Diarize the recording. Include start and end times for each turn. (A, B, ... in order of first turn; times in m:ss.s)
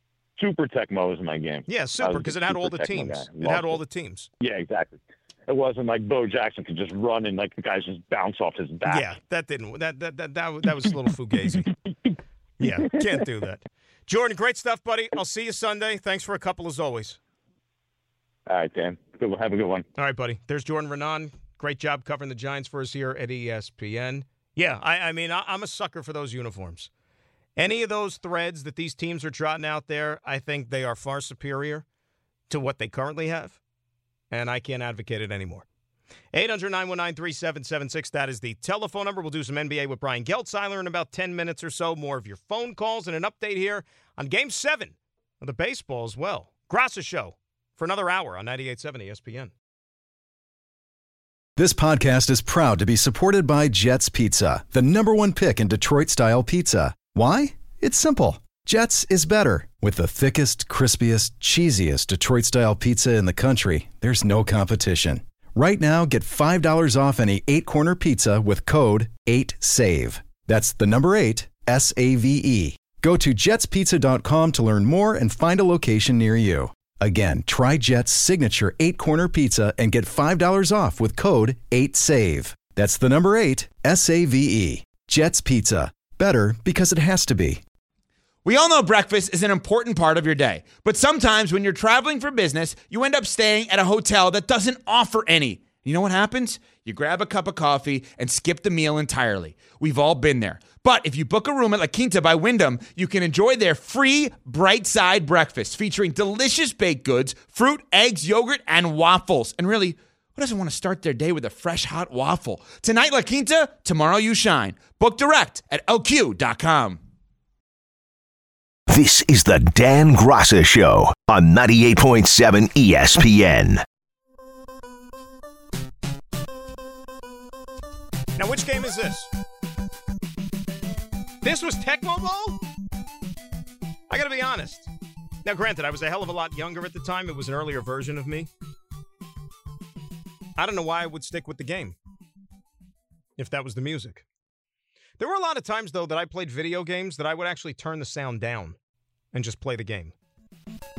0:00.4-0:03.8 A
0:01.7-0:04.3 B
0:04.4-0:09.0 A
0:08.9-0:11.7 B
0:12.6-0:17.2 B
0:18.5-0:19.8 A
0:20.0-0:26.9 B
0:27.6-0:31.8 B
0:32.5-0:33.6 B
0:34.3-0:35.6 B
0:36.3-0:49.5 B
0:51.6-1:27.6 C
1:28.4-1:57.0 D
1:58.9-2:03.8 E
2:08.4-2:09.3 B
2:11.4-2:12.6 B
2:14.1-2:14.9 B
2:15.4-2:18.5 B
2:20.6-2:22.0 B
2:23.4-2:24.2 B
2:25.2-2:28.8 B
2:29.3-2:30.1 B